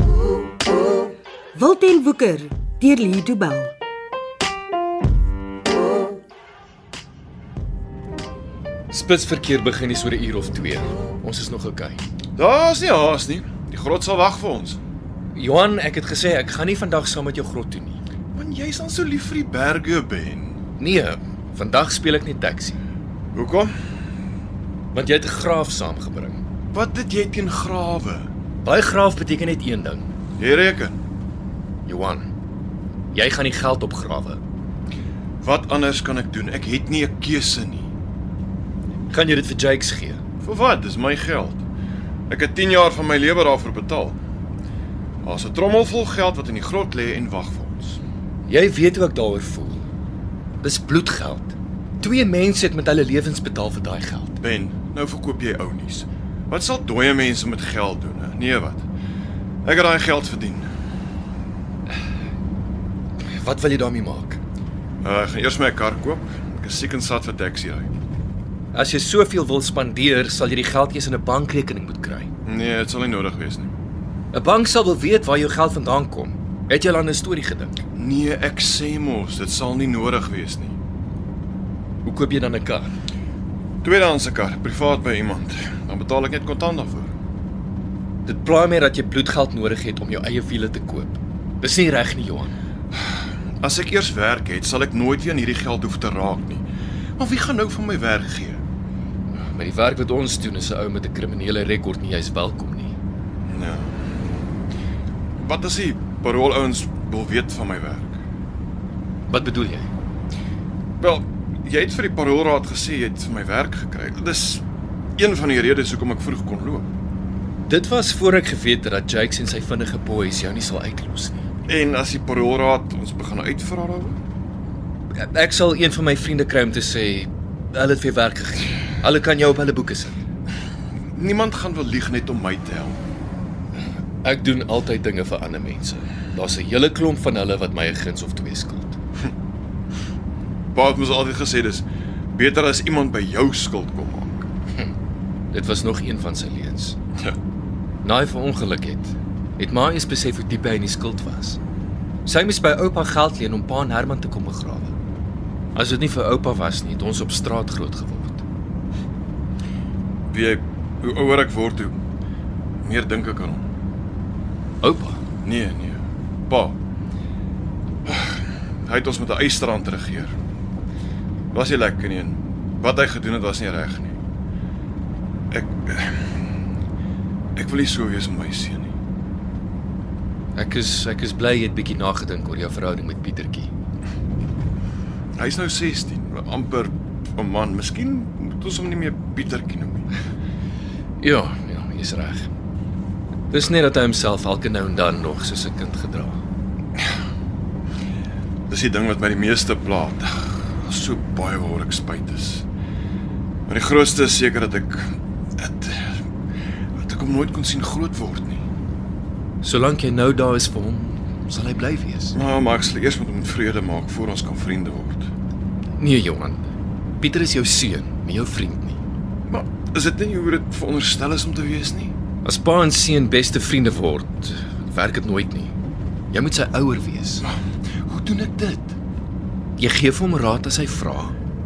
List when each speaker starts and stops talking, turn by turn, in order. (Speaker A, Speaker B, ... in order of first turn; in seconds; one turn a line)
Speaker A: 1.5-3.7
Speaker B: 8.9-12.0
Speaker C: 12.3-14.8
Speaker B: 15.3-18.0
Speaker C: 18.3-20.6
Speaker B: 20.8-22.8
Speaker C: 23.3-23.7
Speaker B: 24.9-26.4
Speaker C: 26.7-28.3
Speaker B: 28.6-30.1
Speaker C: 30.4-31.0
Speaker B: 31.8-32.3
Speaker B: 33.1-34.4
Speaker C: 35.4-37.9
Speaker B: 39.1-40.2
Speaker C: 40.4-41.6
Speaker C: 42.3-44.2
Speaker C: 45.2-48.0
Speaker B: 48.5-49.8
Speaker B: 50.6-54.4
Speaker C: 54.4-58.9
Speaker C: 59.6-60.7
Speaker B: 63.3-64.4
Speaker C: 65.0-67.9
Speaker B: 68.7-72.3
Speaker C: 72.4-73.7
Speaker B: 74.3-77.7
Speaker C: 77.9-80.8
Speaker B: 82.0-82.9
Speaker C: 83.8-87.1
Speaker B: 88.2-92.6
Speaker C: 93.6-96.7
Speaker C: 97.2-98.6
Speaker B: 99.3-102.9
Speaker C: 103.5-104.0
Speaker C: 105.4-108.2
Speaker B: 109.3-109.9
Speaker C: 111.0-114.6
Speaker C: 115.2-116.9
Speaker B: 117.7-121.4
Speaker C: 121.7-124.2
Speaker B: 125.1-130.2
Speaker C: 131.1-133.0
Speaker B: 134.2-139.0
Speaker C: 140.7-144.5
Speaker B: 145.5-147.0
Speaker B: 148.0-151.6
Speaker B: 152.2-154.9
Speaker B: 155.7-158.4
Speaker C: 160.3-161.9
Speaker C: 162.8-163.7
Speaker B: 164.8-165.2
Speaker C: 165.4-166.8
Speaker C: 168.0-170.3
Speaker C: 171.5-174.2
Speaker C: 175.5-176.4
Speaker C: 177.6-178.9
Speaker B: 180.5-183.7
Speaker C: 185.4-190.1
Speaker B: 191.2-192.5
Speaker B: 193.5-196.4
Speaker C: 198.7-202.6
Speaker C: 203.7-206.2
Speaker C: 206.9-208.6
Speaker B: 209.6-212.4
Speaker C: 212.3-215.3
Speaker B: 216.0-219.0
Speaker C: 219.5-222.1
Speaker B: 222.4-225.7
Speaker B: 226.3-227.4
Speaker C: 227.4-228.9
Speaker B: 229.8-231.3